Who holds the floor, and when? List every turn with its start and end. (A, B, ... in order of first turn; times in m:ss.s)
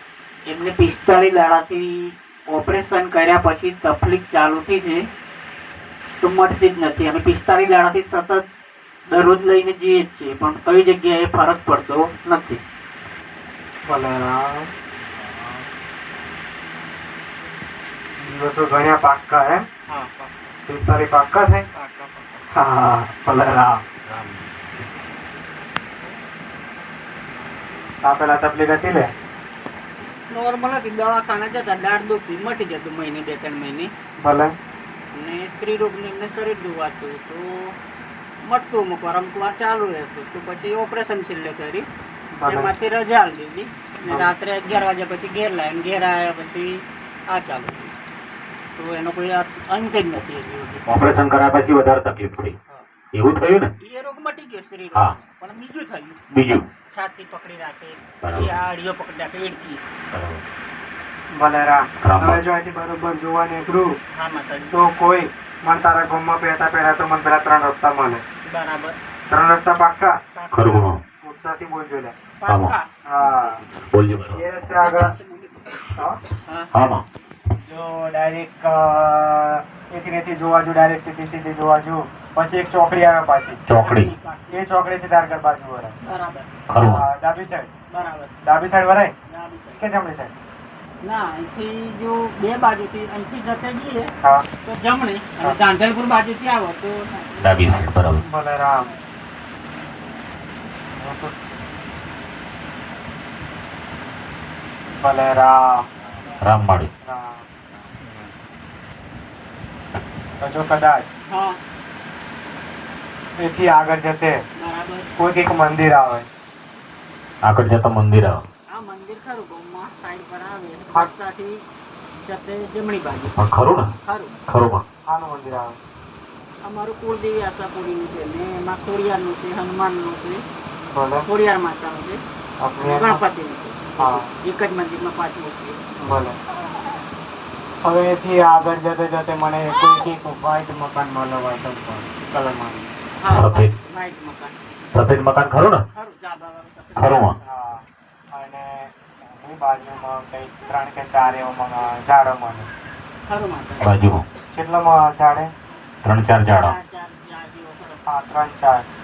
0:00.5-0:05.1 A
0:06.2-0:08.5 A
0:09.1-0:12.6 A
0:13.8-0:14.7 B
0:18.2-0:19.7 B
0:19.9-0:20.4 A
0:20.7-0:21.7 B
0:21.7-0:22.4 A
0:22.5-0:23.8 B
0:28.0-0:29.1 B
0:30.3-0:33.9 A
0:34.2-0:34.5 B
0:35.2-0:37.8 A
0:38.4-0:41.9 A
0:42.4-0:42.7 B
0:42.5-0:47.8 A
0:48.8-0:50.9 A
0:50.9-0:52.6 C
0:53.1-0:53.7 C
0:53.8-0:56.2 A
0:56.3-0:56.7 C
0:56.9-0:59.8 A
0:58.2-0:58.6 C
1:00.1-1:00.4 C
1:01.3-1:04.0 B
1:02.0-1:02.4 C
1:04.1-1:04.8 A
1:04.7-1:08.2 B
1:08.4-1:09.0 A
1:09.3-1:10.2 B
1:10.3-1:10.9 A
1:10.5-1:11.0 C
1:11.2-1:12.2 B
1:12.4-1:12.9 A
1:12.5-1:12.7 C
1:13.0-1:13.6 B
1:13.9-1:14.4 C
1:14.3-1:15.2 B
1:14.8-1:15.9 A
1:15.9-1:16.2 B
1:16.5-1:16.8 A
1:16.7-1:17.0 C
1:17.6-1:23.6 B
1:23.7-1:24.1 C
1:23.7-1:24.6 A
1:24.5-1:26.0 B
1:26.0-1:26.5 A
1:26.7-1:27.1 C
1:26.8-1:27.7 B
1:27.9-1:28.4 A
1:28.4-1:29.1 B
1:29.3-1:29.8 A
1:29.8-1:30.3 B
1:31.0-1:34.1 A
1:34.6-1:37.5 A
1:37.4-1:38.2 C
1:38.2-1:38.9 B
1:41.0-1:41.3 B
1:45.0-1:45.9 B
1:46.4-1:46.9 C
1:47.0-1:47.4 B
1:50.4-1:51.1 B
1:51.3-1:51.6 A
1:53.4-1:54.4 B
1:54.6-1:55.1 A
1:55.2-1:56.3 B
1:57.4-1:58.4 C
1:58.7-2:01.6 A
2:02.2-2:03.4 A
2:03.3-2:03.9 C
2:04.0-2:04.4 A
2:04.5-2:04.8 C
2:05.1-2:05.8 B
2:06.6-2:10.4 A
2:10.9-2:11.3 B
2:11.3-2:12.2 A
2:12.6-2:13.2 B
2:12.8-2:15.8 A
2:14.0-2:14.3 B
2:16.0-2:16.4 B
2:17.8-2:22.9 B
2:23.2-2:24.6 A
2:23.3-2:23.7 C
2:24.9-2:25.8 C
2:25.9-2:27.4 A
2:27.0-2:27.4 C
2:27.4-2:32.7 B
2:33.3-2:34.0 A
2:33.8-2:34.3 C
2:34.5-2:35.5 B
2:36.0-2:36.8 C
2:36.5-2:38.0 A
2:38.1-2:38.9 B